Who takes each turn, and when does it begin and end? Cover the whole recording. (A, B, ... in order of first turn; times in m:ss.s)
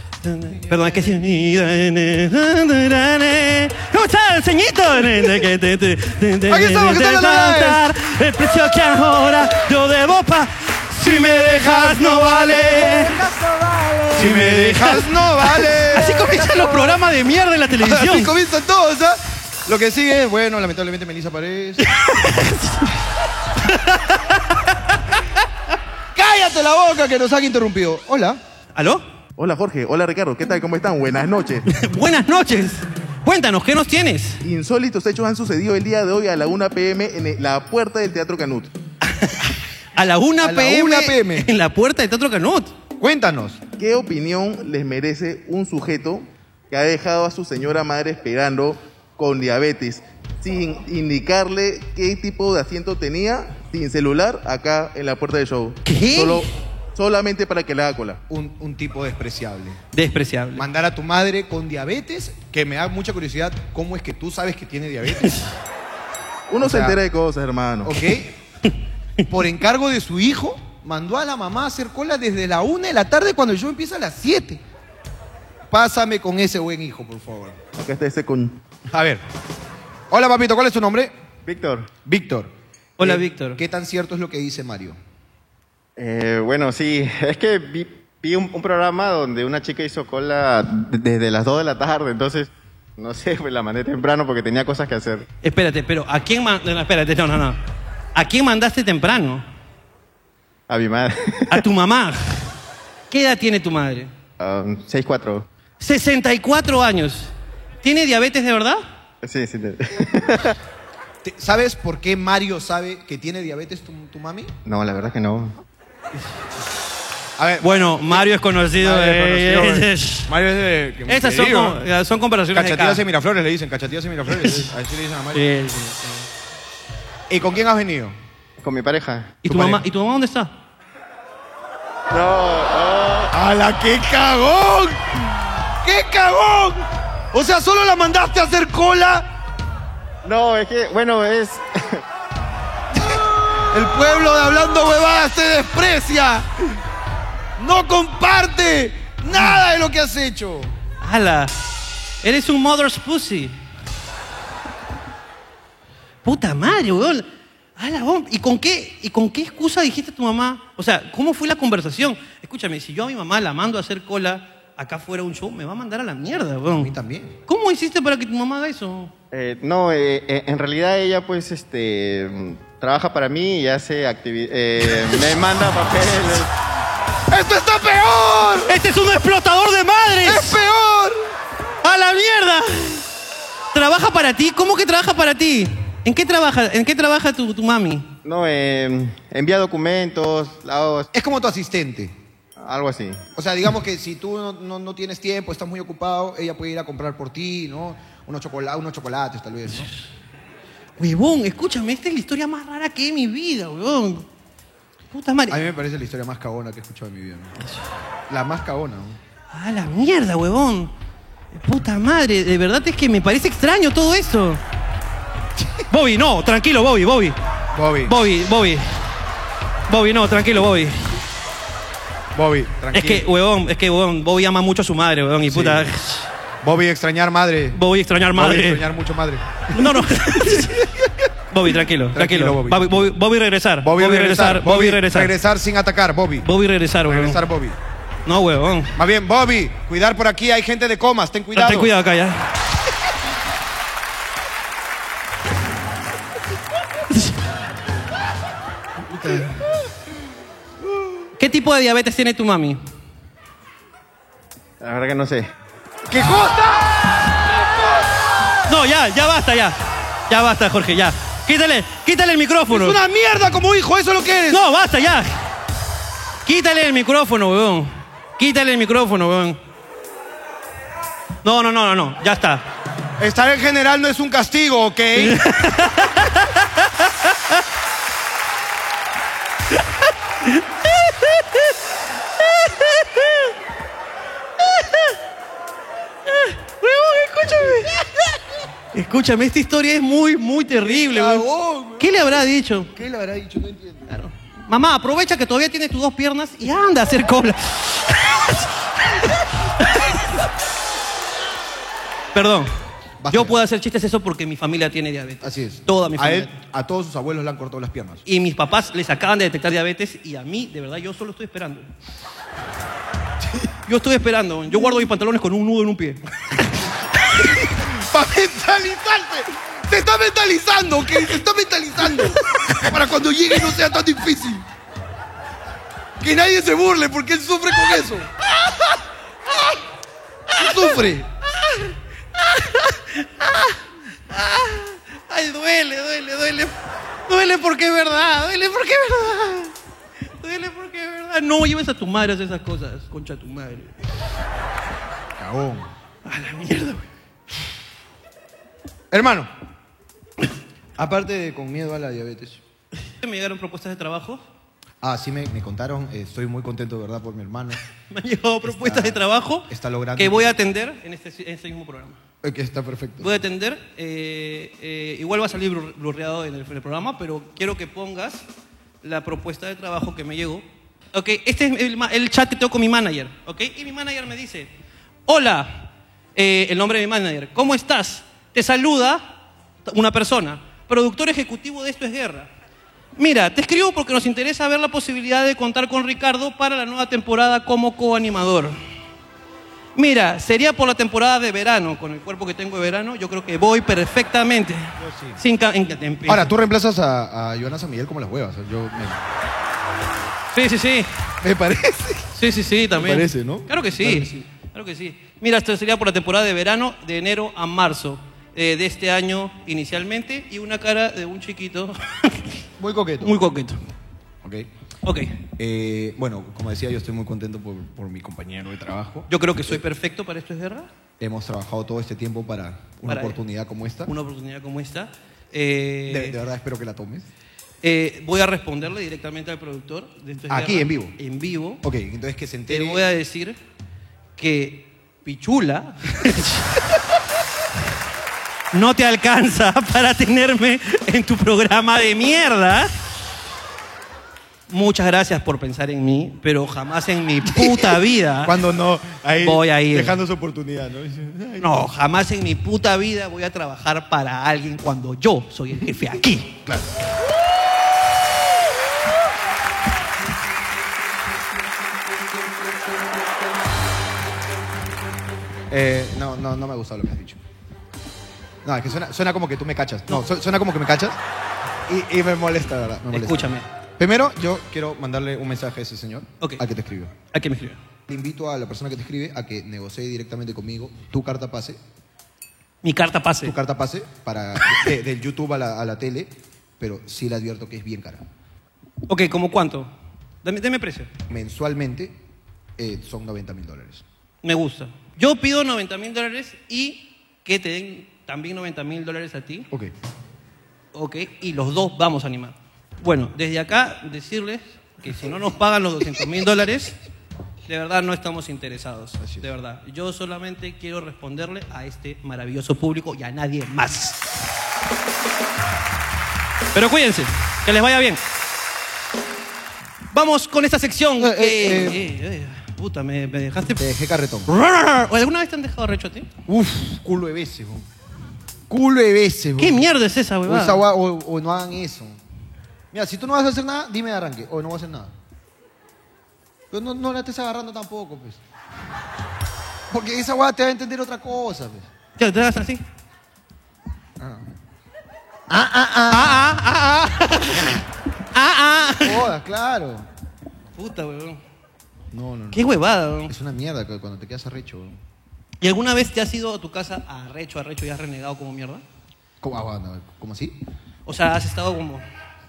0:00.2-0:13.2 A
0:00.7-0:01.0 B
0:06.5-0:07.8 B
0:11.0-0:13.4 B
0:14.1-0:16.4 B
0:14.1-0:18.3 A
0:17.8-0:21.9 B
0:21.8-0:22.9 A
0:23.6-0:24.7 A
0:26.1-0:28.4 B
0:28.8-0:29.0 A
0:29.4-0:31.6 C
0:31.7-0:34.4 A
0:34.4-0:38.7 C
0:39.0-0:42.7 A
0:40.4-0:41.5 B
0:43.0-0:43.6 B
0:43.7-0:58.2 C
0:55.8-0:56.5 A
0:58.3-0:59.8 B
0:59.9-1:00.6 A
1:00.6-1:05.4 B
1:06.5-1:08.0 C
1:06.6-1:07.0 B
1:07.8-1:08.3 B
1:09.3-1:14.6 B
1:15.7-1:17.6 B
1:17.7-1:18.6 C
1:18.9-1:19.2 B
1:20.1-1:21.1 B
1:21.4-1:21.9 D
1:22.0-1:25.0 B
1:23.0-1:23.6 A
1:26.0-1:35.2 D
1:35.4-1:37.6 A
1:38.1-1:39.4 A
1:40.7-1:41.6 D
1:41.5-1:42.4 A
1:43.1-1:44.1 A
1:44.4-1:45.4 D
1:45.8-1:47.3 A
1:47.8-1:48.8 A
1:49.2-1:50.5 D
1:51.2-1:54.5 B
1:54.6-1:55.5 D
1:57.4-2:01.8 B
1:57.6-2:00.3 A
2:01.1-2:03.0 A
2:02.5-2:05.5 B
2:05.3-2:06.2 A
2:07.3-2:08.2 B
2:08.6-2:09.4 D
2:09.4-2:10.5 A
2:09.5-2:09.8 B
2:12.1-2:13.3 D
2:13.3-2:15.0 B
2:15.8-2:16.8 B
2:17.3-2:19.3 B
2:20.2-2:21.7 D
2:23.0-2:26.5 B
2:27.6-2:30.7 B
2:31.0-2:31.5 A
2:32.2-2:33.6 A
2:36.2-2:46.9 A
2:46.7-2:47.4 B
2:47.5-2:49.1 A
2:49.3-2:56.5 D
2:57.3-2:58.8 B
2:58.7-3:00.6 A
3:00.2-3:01.2 B
3:01.8-3:03.0 A
3:03.7-3:08.1 A
3:08.2-3:11.1 D
3:11.1-3:12.2 B
3:12.6-3:13.2 D
3:13.3-3:19.9 B
3:21.0-3:24.2 A
3:25.1-3:25.6 A
3:25.5-3:27.5 B
3:28.3-3:29.2 B
3:29.5-3:30.9 A
3:31.5-3:34.6 A
3:35.9-3:37.4 A
3:37.7-3:38.1 B
3:38.0-3:38.9 A
3:39.9-3:41.2 A
3:42.3-3:43.2 B
3:42.9-3:46.3 A
3:45.5-3:45.9 B
3:46.6-3:47.8 B
3:47.7-3:48.9 A
3:48.3-3:51.1 B
3:49.7-3:50.8 A
3:51.5-3:55.3 A
3:52.1-3:53.2 B
3:53.8-3:56.5 B
3:56.4-3:57.4 A
3:57.0-3:57.8 B
3:58.2-3:58.9 A
3:59.0-4:01.9 B
4:01.5-4:02.4 A
4:09.1-4:09.6 A
4:11.4-4:12.8 A
4:14.8-4:15.5 D
4:16.1-4:18.3 B
4:18.7-4:23.0 A
4:22.7-4:24.6 B
4:24.5-4:25.3 A
4:26.4-4:29.6 A
4:31.4-4:32.6 A
4:33.2-4:35.4 B
4:35.2-4:37.0 A
4:40.4-4:41.4 A
4:42.6-4:43.4 A
4:44.7-4:45.0 A
4:46.3-4:48.0 A
4:48.9-4:51.4 A
4:50.8-4:54.2 B
4:52.0-4:52.9 A
4:54.1-4:58.7 A
4:59.8-5:00.1 A
5:02.3-5:02.7 A
5:03.2-5:03.6 B
5:03.3-5:06.5 A
5:05.4-5:08.2 B
5:08.2-5:11.9 A
5:13.8-5:16.2 A
5:17.6-5:24.6 B
5:26.2-5:28.3 B
5:30.5-5:31.3 B
5:31.6-5:33.7 A
5:34.3-5:36.8 A
5:37.3-5:39.7 A
5:40.4-5:43.9 A
5:45.4-5:45.9 B
5:46.2-5:47.0 A
5:49.1-5:49.5 B
5:51.0-5:52.6 B
5:53.2-5:54.4 A
5:55.0-5:57.8 B
5:58.1-6:02.2 A
5:58.6-6:00.5 B
6:02.4-6:03.3 B
6:03.2-6:08.4 A
6:09.0-6:14.7 A
6:15.3-6:19.2 A
6:19.8-6:22.5 A
6:23.2-6:28.8 A
6:30.0-6:36.5 A
6:35.0-6:35.4 B
6:36.2-6:39.2 B
6:40.5-6:41.1 A
6:41.4-6:42.3 B
6:42.3-6:52.5 A
6:43.0-6:44.4 B
6:52.8-6:53.4 B
6:53.2-6:53.8 A
6:54.4-6:54.7 B
6:55.0-6:55.4 A
6:55.6-6:59.8 B
6:59.3-7:00.9 A
7:01.2-7:04.1 B
7:03.0-7:03.4 A
7:04.0-7:06.4 A
7:06.1-7:07.3 B
7:07.8-7:11.8 A
7:10.5-7:11.2 B
7:11.8-7:13.1 B
7:12.7-7:13.6 A
7:14.4-7:16.7 A
7:18.7-7:22.9 A
7:24.7-7:28.6 A
7:27.4-7:31.7 B
7:29.4-7:30.2 A
7:31.6-7:36.6 A
7:36.6-7:36.9 B
7:45.7-7:47.4 B
7:48.6-7:51.2 B
7:51.9-7:57.1 B
7:53.1-7:53.6 A
7:57.3-7:57.8 A
7:58.1-8:01.8 B
8:02.8-8:03.5 A
8:03.4-8:08.2 B
8:09.1-8:09.9 A
8:10.4-8:11.1 A
8:11.3-8:12.2 B
8:12.8-8:14.0 B
8:14.4-8:19.7 A
8:20.9-8:27.0 A
8:27.7-8:34.2 A
8:29.2-8:29.5 B
8:36.7-8:38.2 A
8:40.1-8:43.8 A
8:41.2-8:42.0 B
8:43.8-8:44.5 B
8:44.5-8:46.3 A
8:46.5-8:47.9 B
8:48.7-8:49.8 B
8:49.6-8:50.8 A
8:50.4-8:52.2 B
8:52.9-8:55.1 B
8:56.7-8:58.4 B
8:59.9-9:01.9 B
9:02.2-9:02.8 A
9:04.2-9:04.5 B
9:05.5-9:06.5 B
9:06.1-9:07.8 A
9:08.3-9:09.2 A
9:09.0-9:10.1 B
9:10.8-9:11.4 A
9:12.1-9:12.7 B
9:12.5-9:13.3 A
9:13.2-9:15.0 B
9:15.6-9:18.8 A
9:19.4-9:20.6 B
9:21.0-9:22.0 A